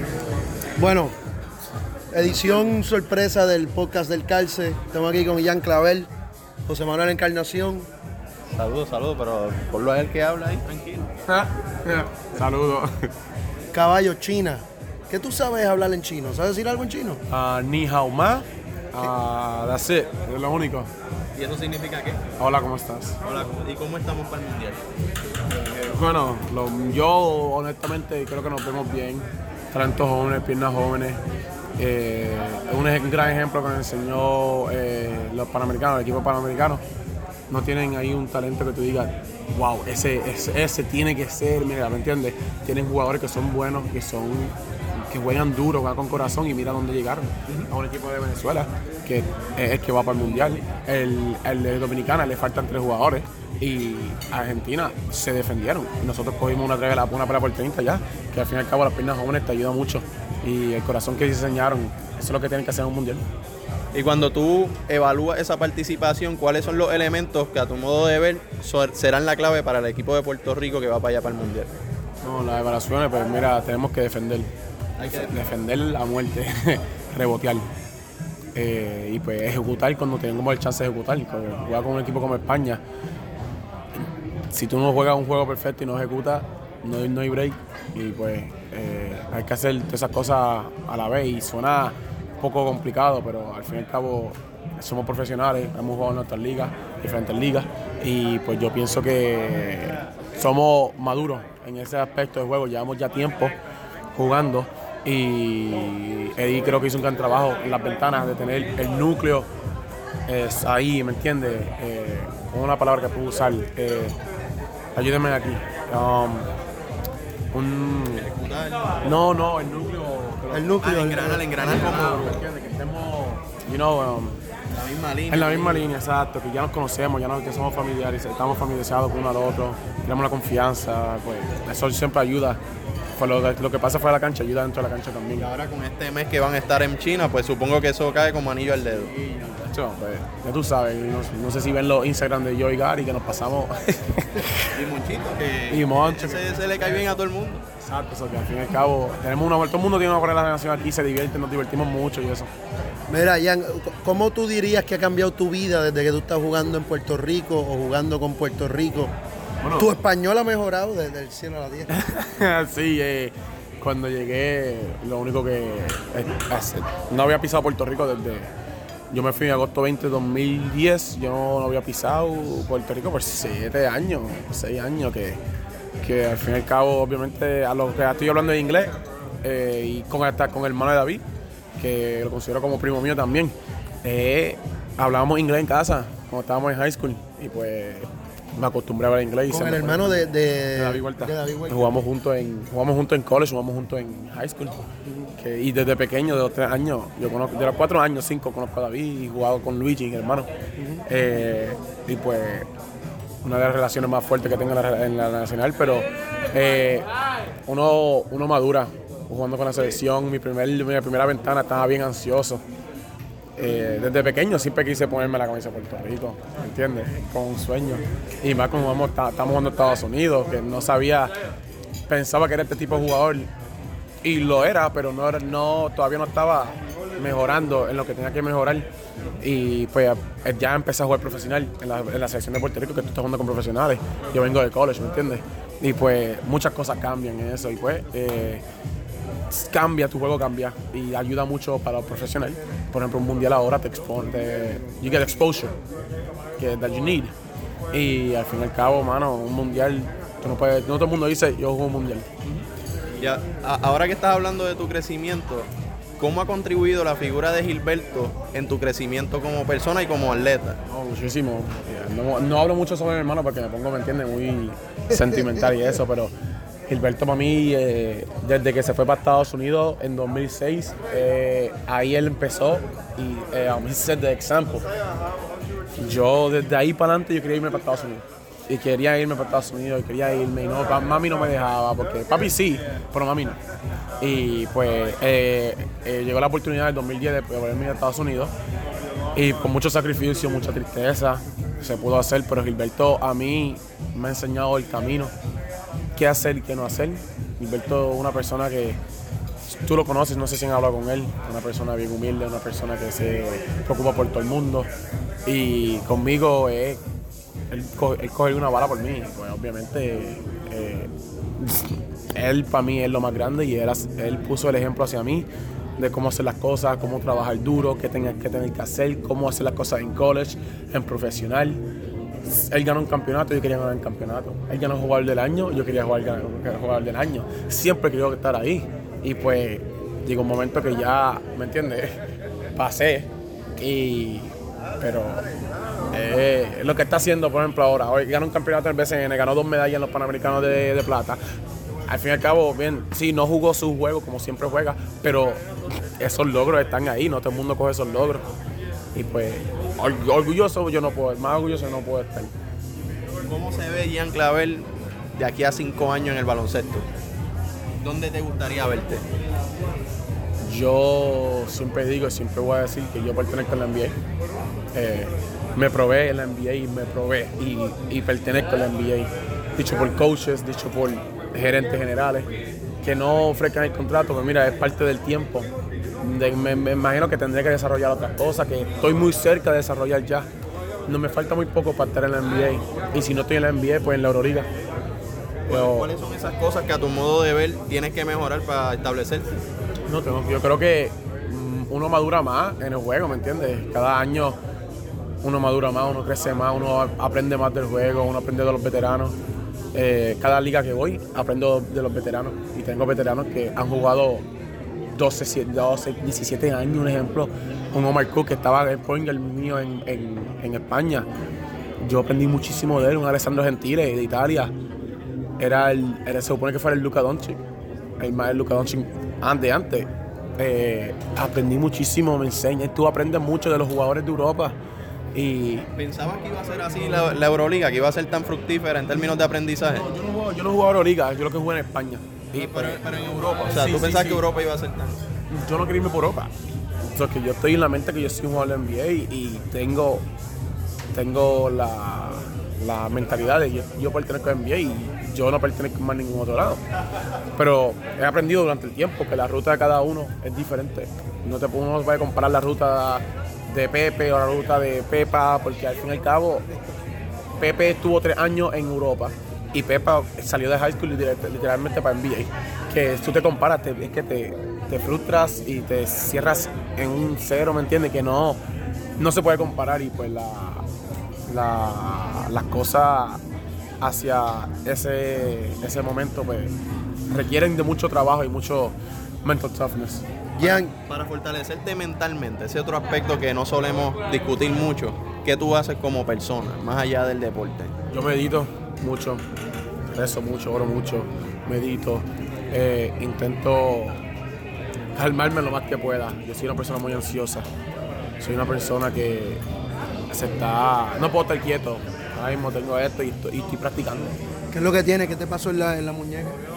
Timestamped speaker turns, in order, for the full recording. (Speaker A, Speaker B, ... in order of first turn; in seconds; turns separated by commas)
Speaker A: 0.8-1.1, Speaker A: 2.1-6.1, Speaker A: 6.7-7.9, Speaker B: 8.5-11.1, Speaker C: 11.3-13.1, Speaker A: 13.7-17.2, Speaker C: 17.3-20.9, Speaker B: 21.3-22.2, Speaker C: 22.4-23.2, Speaker B: 23.2-24.8, Speaker C: 25.6-31.2, Speaker C: 31.8-36.8, Speaker C: 37.5-63.2, Speaker B: 63.9-71.7, Speaker C: 72.2-74.5, Speaker B: 75.0-75.4, Speaker C: 75.0-77.7, Speaker C: 78.5-82.8, Speaker C: 84.5-103.6, Speaker C: 104.1-109.5, Speaker C: 110.3-114.2, Speaker C: 114.9-116.5, Speaker C: 117.5-118.2, Speaker B: 118.1-119.0, Speaker C: 119.0-120.8, Speaker A: 120.5-121.5, Speaker B: 120.8-122.4, Speaker C: 121.6-124.4, Speaker B: 124.7-125.9, Speaker C: 125.3-132.6, Speaker C: 133.2-135.5, Speaker B: 135.4-139.1, Speaker C: 138.9-144.7, Speaker B: 144.7-147.7, Speaker C: 145.7-147.2, Speaker C: 147.8-152.5, Speaker A: 153.1-159.1, Speaker C: 159.6-159.9, Speaker A: 159.8-161.9, Speaker C: 161.9-168.5, Speaker C: 169.1-175.4, Speaker C: 176.0-181.2, Speaker C: 181.8-200.5, Speaker A: 189.5-192.0, Speaker A: 195.1-195.3, Speaker A: 200.8-201.1, Speaker C: 201.1-202.7, Speaker C: 203.4-207.1, Speaker C: 207.7-212.6, Speaker C: 213.6-221.3, Speaker C: 222.1-223.5, Speaker C: 224.2-228.9, Speaker C: 229.4-238.6, Speaker C: 239.5-245.8, Speaker C: 246.6-247.3, Speaker C: 247.9-252.3, Speaker B: 253.2-260.8, Speaker C: 260.9-266.3, Speaker C: 266.9-274.9, Speaker C: 276.0-283.6, Speaker C: 284.2-288.5, Speaker C: 289.3-295.3, Speaker C: 296.1-299.0, Speaker C: 299.7-304.9, Speaker C: 305.4-307.0, Speaker C: 307.7-321.8, Speaker C: 322.4-332.2, Speaker C: 332.8-335.4, Speaker C: 336.1-341.4, Speaker C: 342.1-345.6, Speaker C: 346.2-348.5, Speaker C: 349.1-352.5, Speaker B: 353.4-357.0, Speaker B: 358.0-359.2, Speaker C: 360.6-364.2, Speaker C: 364.9-372.5, Speaker C: 373.0-375.7, Speaker C: 376.2-380.5, Speaker C: 381.1-384.7, Speaker B: 385.7-389.5, Speaker C: 385.7-386.1, Speaker C: 390.1-394.6, Speaker C: 395.4-399.4, Speaker C: 399.9-404.4, Speaker C: 405.1-411.3, Speaker C: 412.0-414.7, Speaker C: 415.6-417.6, Speaker C: 418.2-424.8, Speaker C: 425.3-425.9, Speaker B: 425.9-430.1, Speaker C: 429.9-433.0, Speaker B: 432.5-435.2, Speaker C: 433.6-434.4, Speaker C: 435.5-436.5, Speaker C: 437.0-440.2, Speaker C: 441.1-446.8, Speaker C: 447.6-456.7, Speaker C: 457.6-468.6, Speaker C: 469.2-470.8, Speaker C: 471.5-473.4, Speaker C: 474.0-476.7, Speaker C: 477.3-480.2, Speaker B: 480.6-487.9, Speaker A: 480.6-480.9, Speaker C: 488.1-489.4, Speaker C: 490.1-494.2, Speaker C: 495.1-497.7, Speaker C: 498.4-499.6, Speaker C: 500.3-504.4, Speaker A: 504.7-506.6